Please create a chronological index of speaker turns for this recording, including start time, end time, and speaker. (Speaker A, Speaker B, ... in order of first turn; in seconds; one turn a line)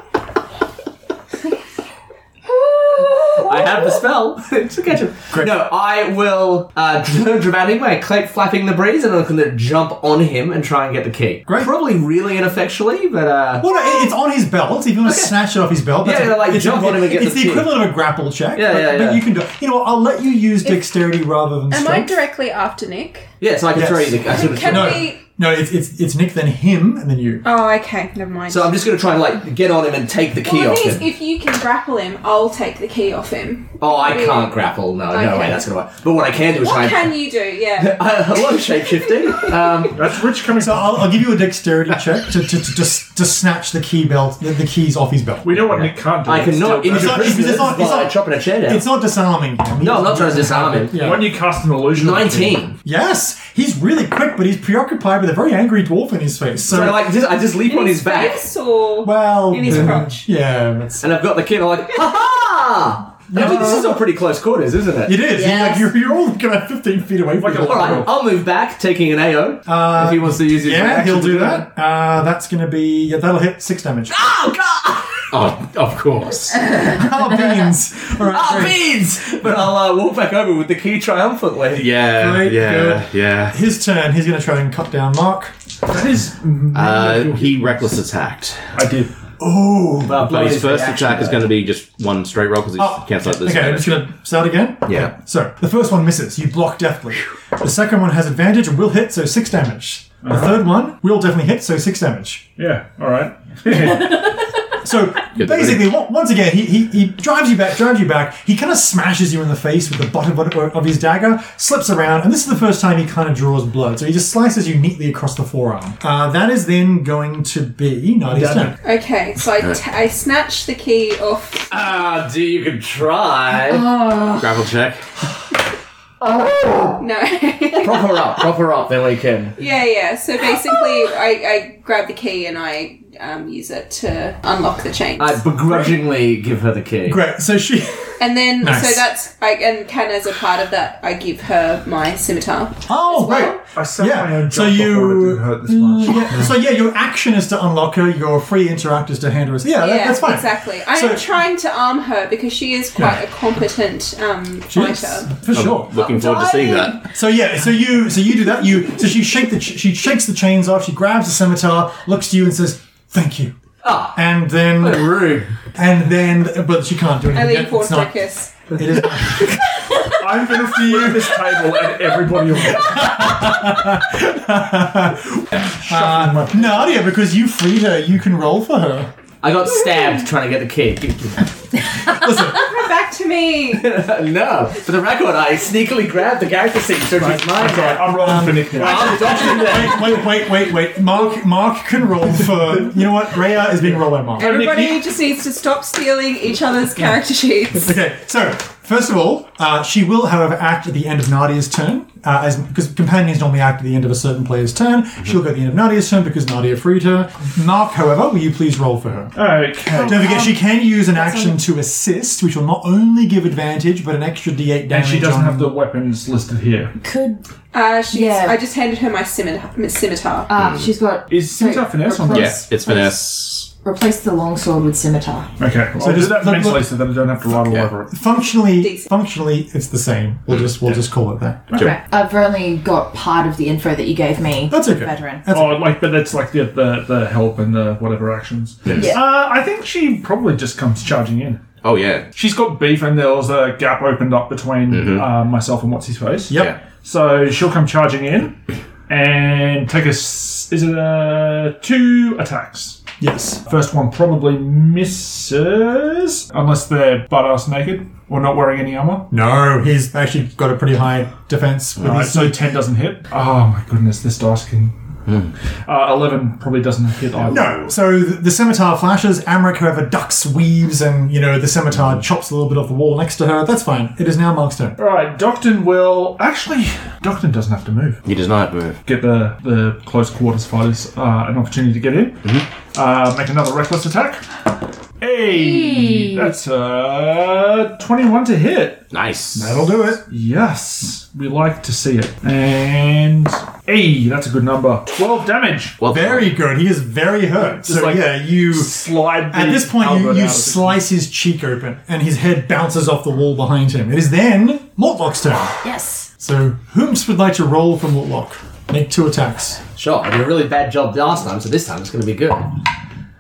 Speaker A: 2.5-4.0
Speaker B: 3.4-13.7
Speaker C: 5.3-5.6
Speaker C: 11.5-11.7
Speaker C: 13.6-22.1
Speaker B: 15.0-15.3
Speaker B: 16.0-17.9
Speaker B: 18.6-19.3
Speaker D: 20.6-20.9
Speaker D: 21.7-23.3
Speaker B: 23.4-25.1
Speaker C: 23.7-27.4
Speaker D: 24.2-25.2
Speaker D: 27.4-28.8
Speaker B: 28.5-31.1
Speaker D: 30.4-34.5
Speaker B: 33.8-37.2
Speaker D: 35.1-35.6
Speaker D: 36.6-39.8
Speaker B: 37.8-40.0
Speaker E: 39.9-41.2
Speaker C: 40.6-45.8
Speaker E: 45.4-47.7
Speaker B: 45.7-48.9
Speaker C: 46.8-51.3
Speaker B: 49.8-51.0
Speaker E: 50.9-52.6
Speaker B: 52.0-52.8
Speaker C: 52.8-57.1
Speaker B: 56.7-58.5
Speaker D: 57.5-60.2
Speaker C: 59.0-61.1
Speaker B: 61.0-65.2
Speaker C: 63.3-64.0
Speaker C: 65.0-68.1
Speaker A: 65.3-65.9
Speaker E: 67.4-68.2
Speaker B: 67.6-71.7
Speaker C: 69.7-74.2
Speaker B: 74.1-75.3
Speaker F: 75.3-76.6
Speaker C: 76.8-78.8
Speaker B: 78.2-81.8
Speaker F: 81.8-83.6
Speaker C: 82.0-85.5
Speaker E: 85.9-87.9
Speaker F: 86.7-88.7
Speaker E: 88.8-89.1
Speaker C: 89.4-90.3
Speaker B: 90.0-91.5
Speaker F: 90.2-94.1
Speaker C: 92.8-102.5
Speaker F: 94.9-95.1
Speaker E: 100.2-100.7
Speaker E: 102.6-104.3
Speaker C: 104.8-118.8
Speaker F: 105.4-105.9
Speaker D: 118.8-121.8
Speaker B: 121.7-123.9
Speaker A: 123.7-124.5
Speaker F: 124.3-125.0
Speaker B: 126.4-126.9
Speaker D: 127.0-128.3
Speaker B: 127.8-129.6
Speaker D: 129.6-135.5
Speaker B: 135.2-137.2
Speaker C: 137.1-139.1
Speaker D: 138.2-143.6
Speaker C: 142.9-151.2
Speaker E: 143.7-146.5
Speaker D: 149.7-155.3
Speaker C: 154.7-155.9
Speaker F: 155.5-157.0
Speaker B: 156.0-157.0
Speaker C: 157.1-163.5
Speaker B: 163.8-164.2
Speaker C: 164.1-165.2
Speaker B: 164.8-165.5
Speaker C: 165.8-168.2
Speaker D: 167.3-168.6
Speaker C: 168.7-171.8
Speaker E: 170.2-173.3
Speaker C: 172.5-179.1
Speaker E: 175.6-177.0
Speaker B: 179.4-181.5
Speaker C: 182.0-182.7
Speaker D: 182.5-183.9
Speaker B: 183.7-188.1
Speaker C: 187.3-194.6
Speaker E: 187.3-189.5
Speaker B: 188.7-190.2
Speaker D: 194.4-197.9
Speaker E: 194.4-195.1
Speaker C: 197.8-209.4
Speaker E: 209.3-210.3
Speaker A: 209.9-211.6
Speaker C: 210.0-215.8
Speaker E: 214.9-216.9
Speaker A: 217.0-217.4
Speaker D: 217.7-220.5
Speaker A: 218.1-218.6
Speaker A: 220.5-223.2
Speaker F: 220.6-220.9
Speaker E: 221.3-222.6
Speaker F: 222.3-223.7
Speaker A: 223.8-225.5
Speaker E: 225.6-228.1
Speaker C: 226.0-226.9
Speaker F: 227.6-227.9
Speaker C: 228.1-231.7
Speaker D: 228.8-229.1
Speaker A: 231.7-235.4
Speaker C: 234.7-235.9
Speaker E: 235.5-241.6
Speaker F: 238.8-239.1
Speaker A: 238.9-239.3
Speaker F: 241.8-242.3
Speaker E: 242.3-253.0
Speaker F: 244.9-245.3
Speaker C: 253.2-253.6
Speaker E: 253.7-259.3
Speaker C: 259.3-262.6
Speaker E: 262.0-265.0
Speaker F: 265.3-265.5
Speaker E: 265.9-267.9
Speaker C: 267.4-275.0
Speaker E: 275.0-278.2
Speaker F: 278.3-279.0
Speaker E: 279.1-282.4
Speaker E: 282.9-284.5
Speaker E: 285.2-289.1
Speaker A: 285.5-286.5
Speaker F: 289.1-289.8
Speaker C: 289.6-290.2
Speaker E: 290.3-296.0
Speaker F: 296.0-296.5
Speaker C: 296.1-305.8
Speaker E: 297.6-301.0
Speaker A: 305.8-306.3
Speaker C: 306.4-309.8
Speaker B: 310.0-312.8